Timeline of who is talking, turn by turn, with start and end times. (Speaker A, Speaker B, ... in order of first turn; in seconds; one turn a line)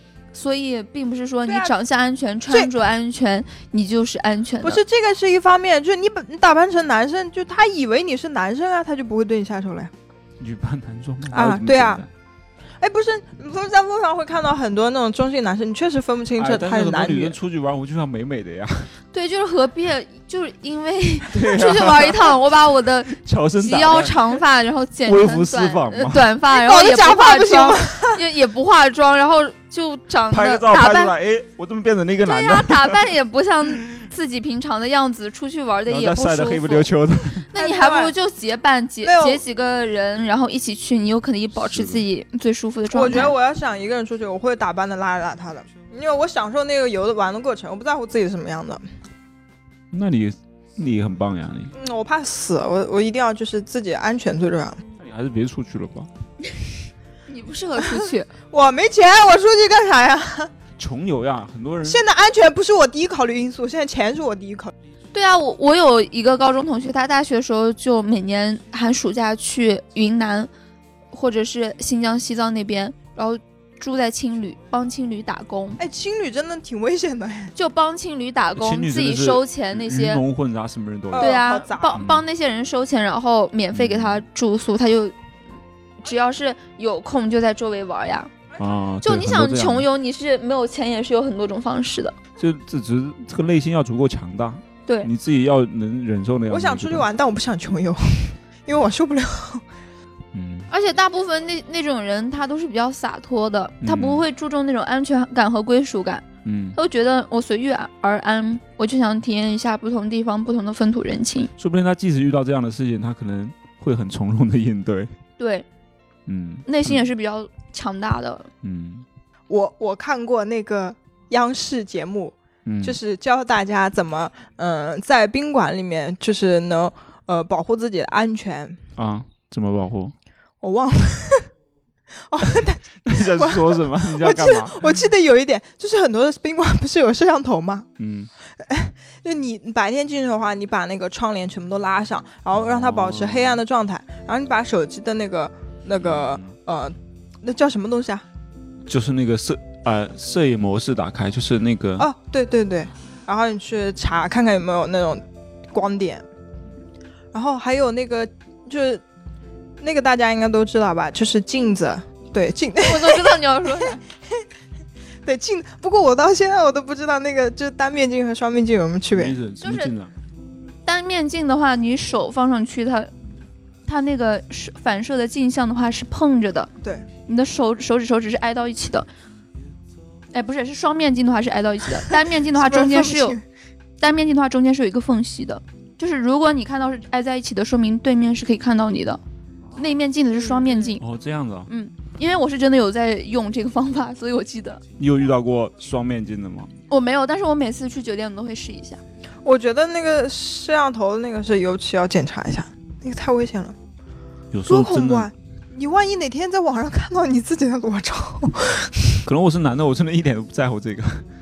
Speaker A: 0.3-4.8
Speaker B: 1.5-1.7
Speaker B: 4.6-9.9
Speaker C: 10.4-12.1
Speaker B: 11.3-12.0
Speaker B: 12.8-17.4
Speaker C: 16.4-18.9
Speaker A: 19.1-31.1
Speaker C: 21.3-22.4
Speaker C: 23.1-24.2
Speaker C: 25.1-26.3
Speaker B: 26.5-28.2
Speaker C: 30.3-33.1
Speaker A: 32.2-36.9
Speaker C: 35.9-37.5
Speaker A: 37.5-43.3
Speaker B: 37.5-38.1
Speaker B: 39.0-39.4
Speaker C: 41.7-42.0
Speaker B: 42.9-48.8
Speaker C: 49.9-51.7
Speaker B: 51.7-54.8
Speaker C: 55.0-56.1
Speaker A: 57.3-58.3
Speaker B: 57.8-60.5
Speaker C: 60.8-62.0
Speaker B: 61.8-64.7
Speaker A: 65.1-70.5
Speaker A: 71.1-75.8
Speaker B: 75.8-77.5
Speaker A: 77.5-80.2
Speaker C: 78.6-81.4
Speaker B: 81.1-82.0
Speaker A: 81.2-85.1
Speaker C: 81.9-82.2
Speaker C: 83.7-84.2
Speaker A: 86.0-88.3
Speaker C: 88.6-89.9
Speaker A: 89.0-92.2
Speaker C: 92.4-97.1
Speaker B: 96.5-99.6
Speaker C: 100.3-100.7
Speaker A: 100.7-111.5
Speaker C: 103.8-104.2
Speaker C: 106.4-106.8
Speaker C: 111.6-115.1
Speaker A: 115.4-115.7
Speaker C: 116.3-117.0
Speaker A: 116.7-118.5
Speaker C: 118.6-119.0
Speaker B: 119.5-128.8
Speaker C: 122.7-123.0
Speaker C: 128.9-130.1
Speaker B: 130.6-131.5
Speaker B: 132.3-137.9
Speaker C: 133.1-134.9
Speaker C: 138.0-138.3
Speaker B: 138.6-148.2
Speaker C: 142.5-143.6
Speaker C: 146.0-146.5
Speaker C: 148.9-152.1
Speaker B: 152.0-156.2
Speaker B: 157.3-159.0
Speaker B: 159.8-163.9
Speaker A: 162.8-164.0
Speaker B: 165.2-169.3
Speaker C: 169.1-170.1
Speaker A: 169.6-169.9
Speaker A: 170.8-173.1
Speaker A: 173.8-176.7
Speaker A: 177.3-179.1
Speaker A: 180.3-183.4
Speaker B: 182.1-183.4
Speaker A: 184.0-189.2
Speaker A: 189.8-191.0
Speaker B: 190.4-190.9
Speaker C: 191.0-191.7
Speaker A: 191.7-194.8
Speaker C: 195.0-196.7
Speaker A: 196.9-199.0
Speaker B: 199.4-203.8
Speaker C: 204.5-205.3
Speaker B: 204.7-209.2
Speaker C: 209.2-211.2